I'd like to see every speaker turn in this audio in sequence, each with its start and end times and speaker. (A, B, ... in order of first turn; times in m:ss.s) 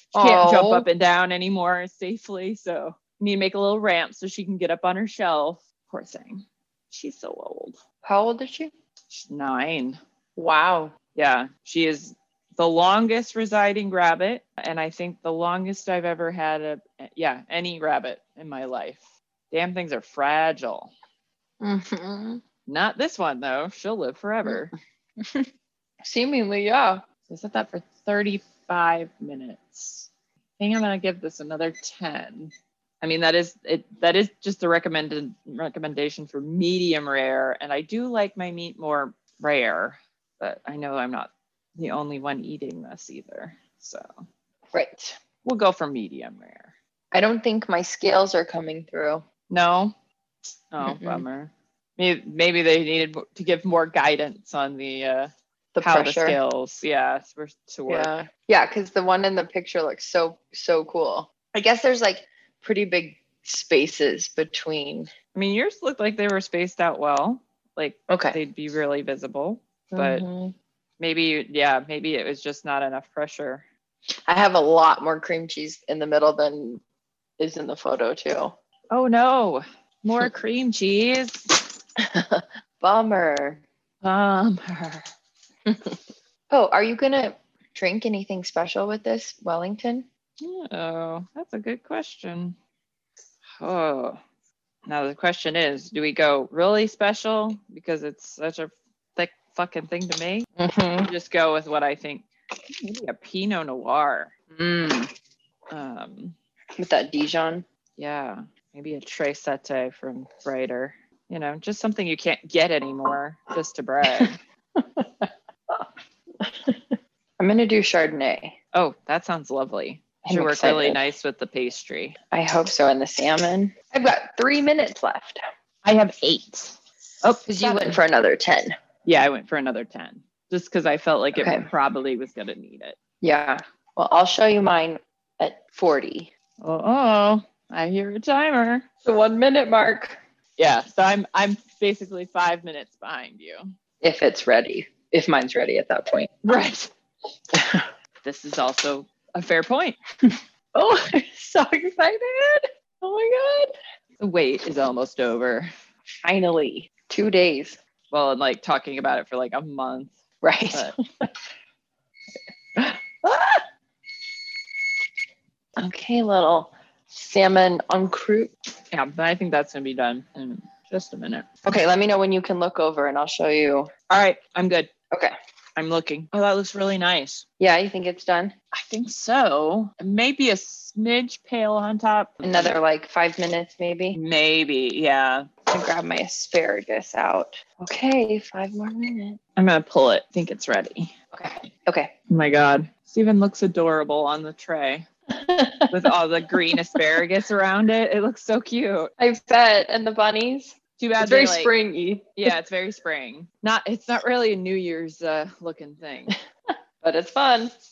0:00.1-0:07.8 A
0:00.2-0:00.9 B
0:08.0-0:08.7 B
0:09.1-0:10.0 A
0:10.4-0:11.0 B
0:11.2-0:20.9 A
0:21.6-0:22.4 B
0:22.7-0:24.7 A
0:25.2-0:25.5 B
0:26.0-0:27.0 B
0:27.3-0:44.2 A
0:44.7-0:45.2 B
0:45.4-0:46.7 A
0:47.1-0:49.2 B
0:49.5-0:49.9 A
0:50.7-0:55.3 A
0:50.8-0:51.2 B
0:55.8-0:56.4 B
0:55.8-0:58.1 A
0:57.9-1:05.1 B
1:05.4-1:10.2 A
1:08.1-1:08.4 B
1:09.9-1:10.5 B
1:11.0-1:13.6 A
1:14.3-1:16.8 B
1:17.4-1:18.6 B
1:18.9-1:21.6 A
1:22.0-1:23.6 B
1:24.0-1:25.1 A
1:25.7-1:26.0 B
1:26.5-1:30.1 B
1:30.4-1:32.6 A
1:33.6-1:34.2 A
1:34.9-1:40.5 A
1:40.6-1:41.1 B
1:41.0-1:44.3 A
1:44.5-1:45.1 B
1:45.7-1:46.4 A
1:46.8-1:47.6 B
1:48.0-1:54.4 A
1:54.1-1:55.9 B
1:56.4-1:58.6 B
1:58.7-2:02.2 A
2:00.2-2:01.0 B
2:02.3-2:05.4 B
2:05.8-2:08.0 A
2:07.5-2:08.7 B
2:09.0-2:13.0 A
2:11.4-2:11.7 B
2:13.2-2:16.3 B
2:16.6-2:18.8 A
2:19.0-2:20.2 B
2:20.6-2:23.7 A
2:24.0-2:26.4 B
2:26.4-2:26.9 A
2:27.5-2:27.9 B
2:28.2-2:30.0 A
2:30.2-2:33.7 B
2:34.2-2:35.7 A
2:36.2-2:37.8 B
2:38.1-2:40.2 A
2:40.4-2:41.3 B
2:42.8-2:43.6 B
2:45.8-2:48.5 B
2:48.9-2:51.5 A
2:51.6-2:53.9 B
2:54.1-2:54.9 A
2:55.8-2:57.4 A
2:57.6-2:58.5 B
2:58.7-3:02.8 A
3:02.4-3:04.2 B
3:04.1-3:05.5 A
3:05.7-3:09.4 B
3:09.6-3:11.1 A
3:11.3-3:12.1 B
3:12.3-3:15.1 A
3:15.3-3:16.1 B
3:15.9-3:19.1 A
3:16.7-3:17.0 B
3:19.2-3:22.3 B
3:21.0-3:21.7 A
3:22.4-3:26.4 A
3:27.0-3:27.7 B